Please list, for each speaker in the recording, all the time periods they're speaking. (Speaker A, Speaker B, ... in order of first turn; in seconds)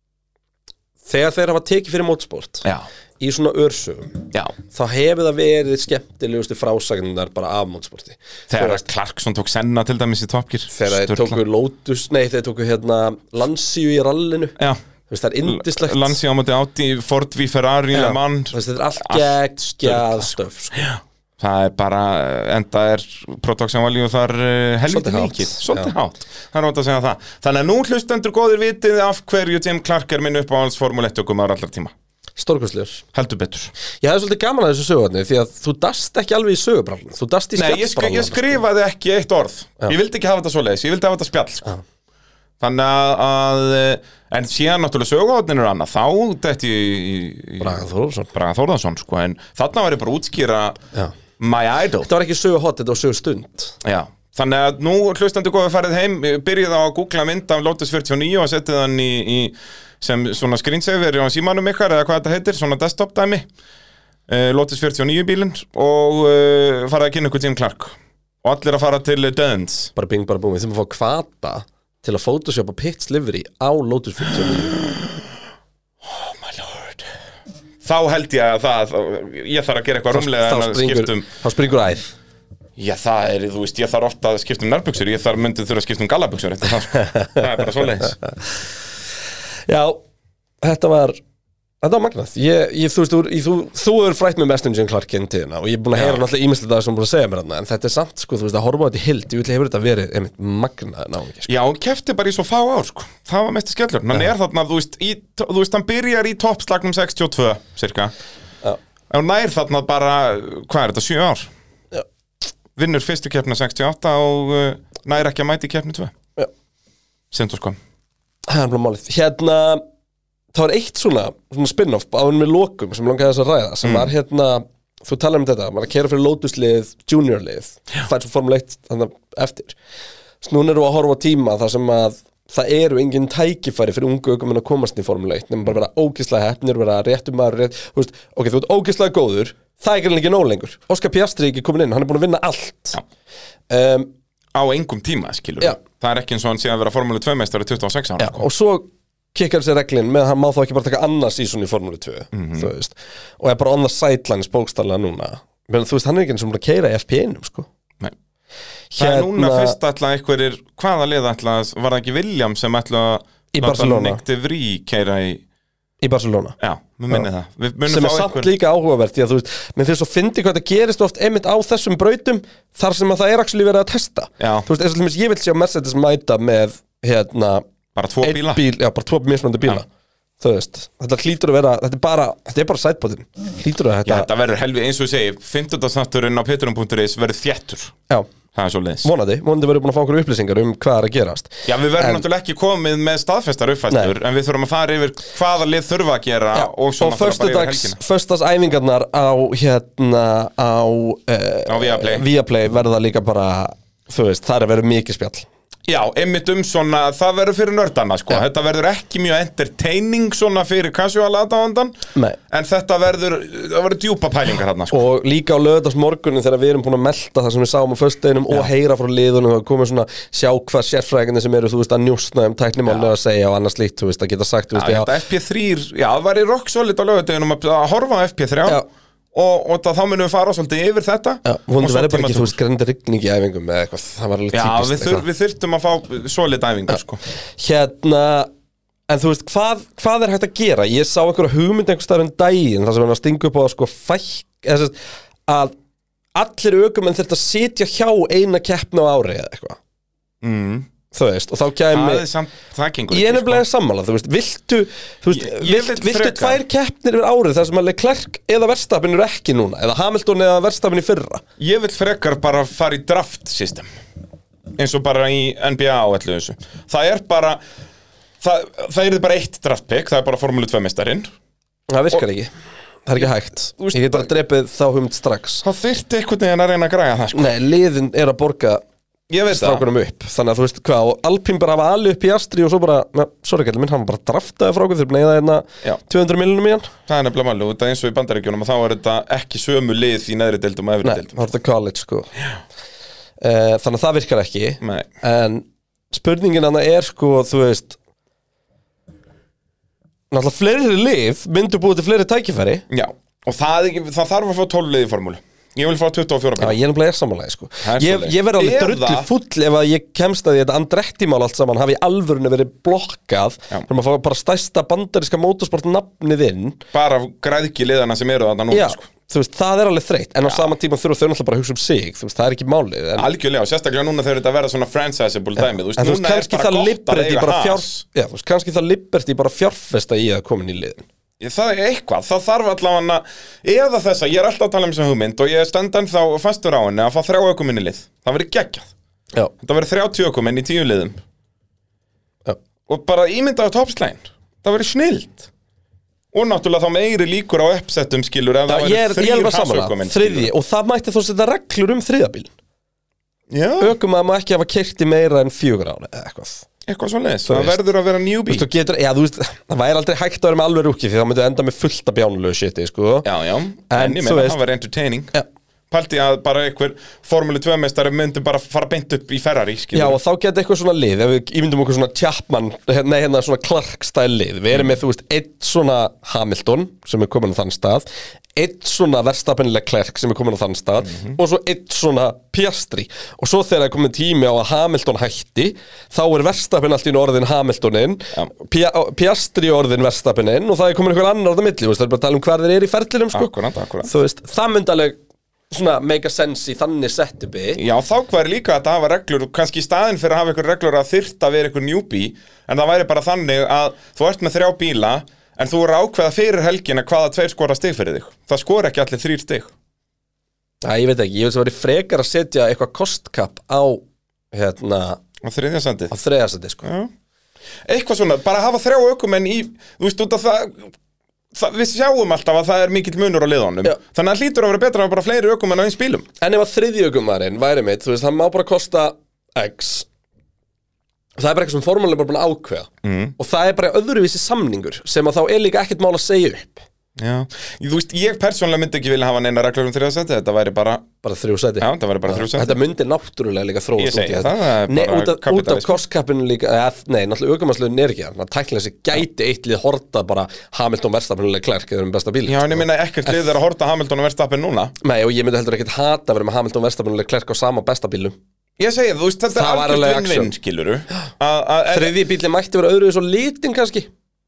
Speaker A: 1.0-2.6, 3.2-8.8, 10.7-14.6, 15.1-16.2, 17.9-20.9, 24.9-25.9, 32.4-33.0, 34.0-38.6, 47.6-48.3, 52.0-53.8, 70.0-74.9, 80.1-82.1, 89.7-90.0, 90.6-91.2, 91.8-101.5, 118.5-119.8, 120.5-129.8, 130.4-143.0, 143.7-144.1, 148.2-157.7, 158.9-159.8, 163.5-164.2, 166.0-166.5, 167.9-177.6, 178.2-179.8, 180.4-184.3, 189.0-192.2, 196.5-205.5, 214.9-225.1, 231.4-235.2, 237.6-238.5, 239.1-244.9, 245.5-245.7, 246.3-249.8, 251.1-252.2, 253.1-261.4, 271.9-272.5, 273.1-275.6, 277.3-278.8, 279.5-286.9, 291.0-292.3, 293.4-298.0, 300.3-302.8, 306.6-316.8, 318.7-323.3, 326.0-331.0, 348.7-352.5, 353.8-356.6, 357.5-357.8, 358.5-363.3, 363.9-364.6, 369.9-378.0, 378.6-395.2, 395.7-397.8, 410.8-415.2, 416.1-416.9, 426.4-430.1, 431.4-436.8, 441.2-453.4, 455.0-458.4, 459.5-460.5, 461.9-464.1
Speaker B: 8.5-11.4, 15.4-31.9, 33.1-33.7, 37.5-41.7, 42.6-47.8, 48.3-50.8, 51.4-52.1, 53.8-63.5, 64.3-69.9, 76.0-77.0, 77.8-81.3, 82.8-88.2, 95.9-96.2, 101.5-108.1, 109.1-111.5, 112.8-116.1, 117.3-117.8, 123.8-124.1, 144.5-148.4, 152.3-152.7, 158.9-165.4, 166.6-168.5, 174.4-174.7, 177.9-178.6, 184.1-187.9, 188.5-189.1, 191.7-198.0, 201.7-202.3, 205.9-211.9, 212.5-215.1, 224.7-228.8, 229.3-232.6, 234.5-237.2, 250.4-250.9, 251.9-253.6, 255.3-256.6, 261.6-263.9, 264.8-267.6, 268.4-271.3, 273.2-274.2, 275.6-277.5, 279.3-279.8, 287.1-291.4, 294.8-295.1, 302.9-306.8, 307.8-309.3, 316.9-319.0, 323.2-328.0, 331.4-338.9, 339.6-341.2, 342.9-345.5, 346.3-350.5, 353.5-353.9, 356.9-358.7, 363.2-365.3, 365.9-370.2, 393.3-394.1, 397.8-409.7, 415.4-416.1, 416.8-417.1, 417.9-420.9, 421.5-426.3, 433.0-433.3, 437.1-441.1, 441.8-442.8, 444.0-446.0, 452.4-454.9, 458.8-462.1